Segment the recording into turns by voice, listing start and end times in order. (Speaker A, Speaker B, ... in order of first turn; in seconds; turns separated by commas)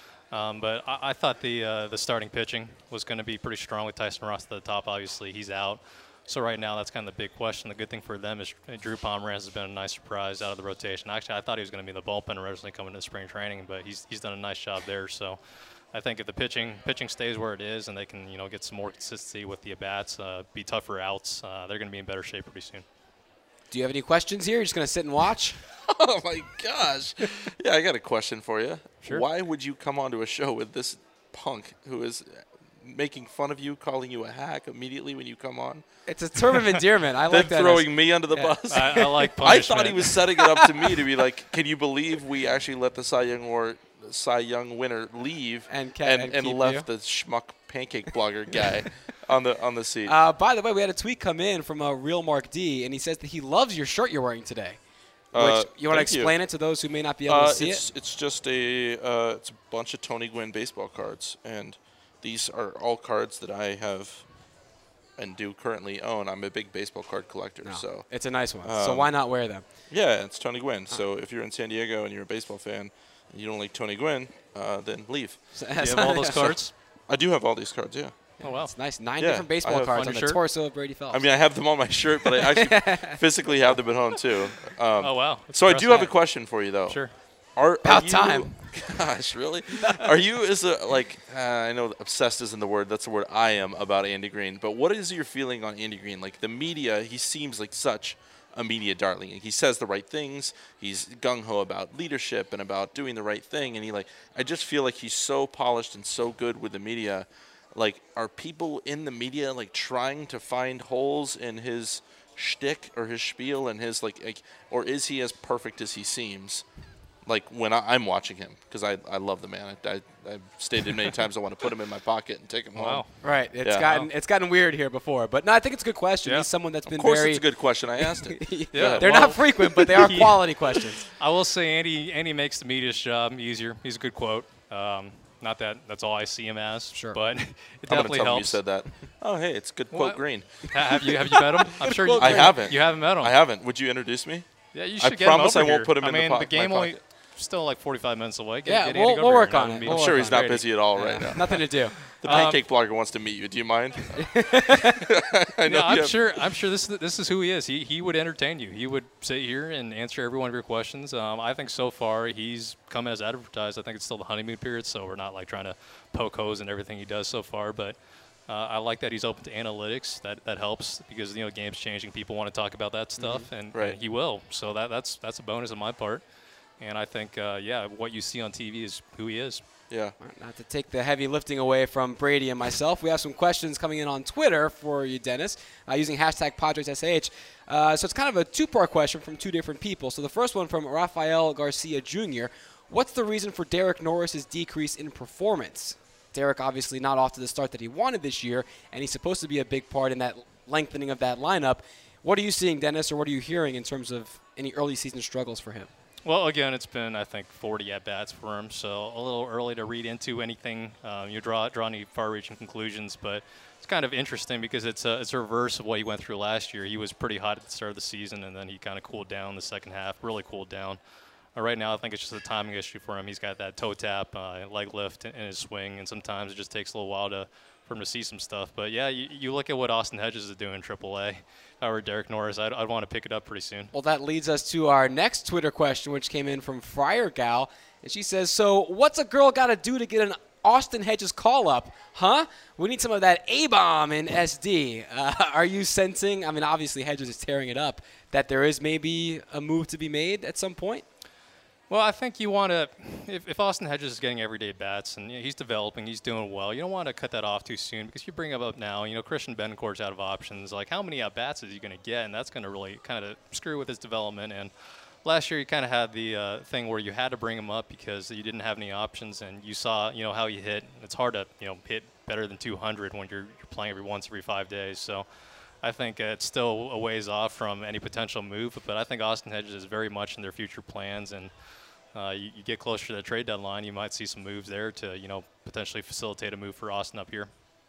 Speaker A: 0.3-15.4, Speaker A: 15.9-22.9, Speaker B: 23.7-25.6, Speaker C: 25.9-35.8, Speaker B: 36.1-38.5, Speaker C: 37.3-50.1, Speaker A: 38.7-40.8, Speaker B: 45.7-46.9, Speaker B: 50.0-54.8, Speaker C: 55.3-56.4, Speaker B: 55.3-57.8, Speaker C: 57.3-64.2, Speaker C: 65.2-68.1, Speaker B: 67.6-69.7, Speaker C: 68.6-69.1, Speaker C: 69.9-75.4, Speaker B: 75.5-76.6, Speaker A: 75.8-76.7, Speaker C: 75.9-78.1, Speaker A: 78.4-78.7, Speaker B: 78.5-81.3, Speaker C: 79.2-80.0, Speaker A: 79.7-80.4, Speaker C: 81.1-87.0, Speaker B: 82.2-83.2, Speaker A: 85.0-87.1, Speaker C: 87.6-116.7, Speaker B: 87.8-88.6, Speaker B: 89.8-90.1, Speaker C: 117.3-123.0, Speaker A: 122.8-123.1, Speaker B: 123.2-127.5, Speaker C: 123.6-123.9, Speaker C: 126.9-129.4, Speaker B: 128.0-131.1, Speaker A: 128.7-138.6, Speaker B: 136.9-137.2, Speaker C: 137.9-140.7, Speaker A: 139.9-143.3, Speaker B: 141.7-142.6, Speaker C: 142.1-144.5, Speaker A: 144.7-151.4, Speaker C: 145.0-147.0, Speaker B: 148.7-152.5, Speaker C: 149.8-151.6, Speaker C: 152.2-156.2, Speaker A: 152.2-152.6, Speaker B: 154.2-155.1, Speaker A: 155.7-168.0, Speaker A: 168.5-176.2, Speaker B: 173.2-173.5, Speaker A: 176.8-179.6, Speaker C: 179.9-180.2, Speaker B: 180.2-205.9, Speaker A: 206.2-221.0, Speaker A: 221.6-233.9, Speaker B: 233.9-251.1, Speaker A: 251.9-264.7, Speaker A: 265.2-275.3, Speaker A: 275.8-281.5, Speaker A: 282.1-287.5